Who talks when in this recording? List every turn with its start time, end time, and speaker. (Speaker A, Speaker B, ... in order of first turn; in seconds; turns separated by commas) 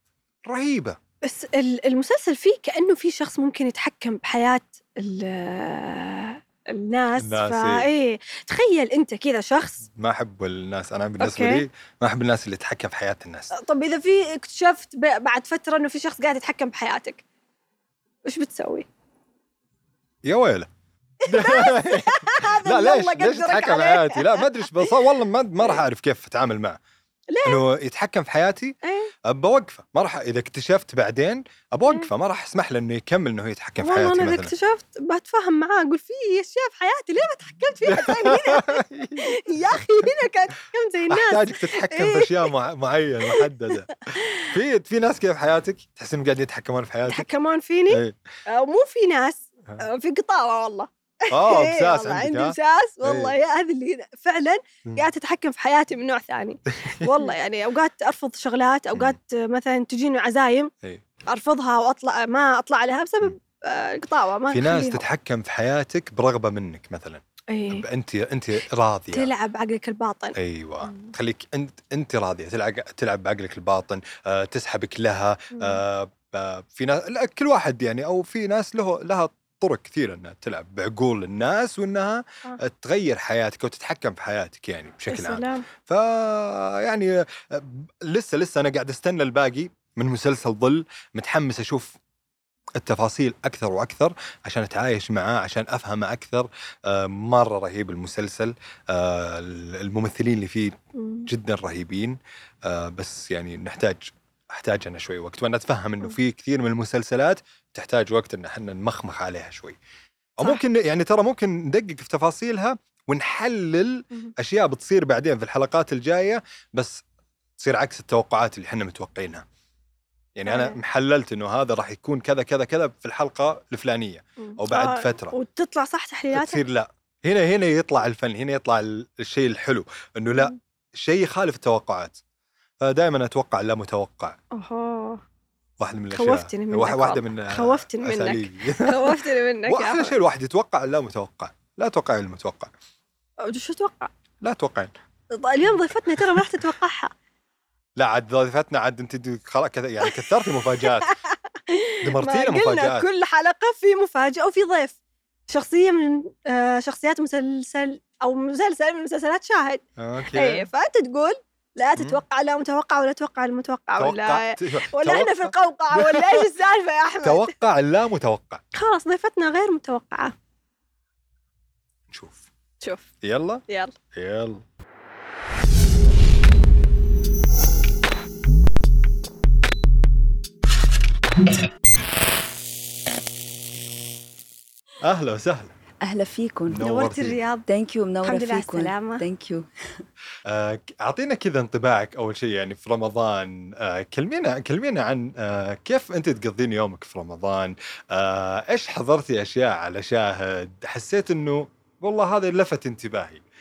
Speaker A: 0.5-1.0, Speaker B: 1.2-9.9, Speaker A: 7.2-7.9, Speaker A: 10.0-13.5, Speaker B: 11.2-11.6, Speaker B: 13.5-17.2, Speaker B: 18.2-18.9, Speaker A: 20.2-20.7, Speaker A: 21.2-26.8, Speaker B: 21.2-24.9, Speaker B: 27.3-27.6, Speaker A: 27.4-34.5, Speaker B: 28.8-29.1, Speaker B: 33.8-42.5, Speaker A: 37.9-39.9, Speaker A: 41.1-47.3, Speaker B: 43.3-44.5, Speaker B: 47.1-60.7, Speaker A: 47.9-48.2, Speaker A: 51.3-53.4, Speaker A: 56.8-57.3, Speaker B: 61.3-65.0, Speaker A: 64.5-69.3, Speaker B: 67.5-67.8, Speaker B: 69.1-71.1, Speaker A: 70.4-92.0, Speaker B: 75.5-75.8, Speaker B: 85.1-85.7, Speaker A: 92.8-100.8, Speaker B: 101.0-101.3, Speaker A: 101.3-109.8, Speaker A: 110.4-117.0, Speaker A: 117.6-119.4, Speaker A: 120.4-125.3, Speaker B: 120.5-120.8, Speaker B: 124.4-126.6, Speaker A: 126.3-132.2, Speaker A: 132.8-134.4, Speaker B: 134.5-135.2, Speaker A: 135.8-142.7, Speaker B: 136.1-140.2, Speaker B: 143.4-144.1, Speaker A: 144.4-144.9, Speaker B: 145.3-147.1, Speaker A: 148.0-151.1, Speaker B: 150.8-155.0, Speaker A: 152.0-153.1, Speaker B: 155.5-167.6, Speaker A: 160.0-160.7, Speaker A: 164.0-166.5, Speaker A: 167.2-168.6, Speaker B: 168.7-170.3, Speaker A: 172.1-172.5, Speaker B: 172.8-173.1, Speaker A: 173.2-174.6, Speaker B: 173.7-173.9, Speaker A: 185.0-185.7, Speaker C: 186.0-186.9, Speaker A: 186.7-187.4, Speaker B: 186.8-187.7, Speaker C: 187.7-189.7, Speaker B: 188.2-189.2, Speaker A: 190.5-203.4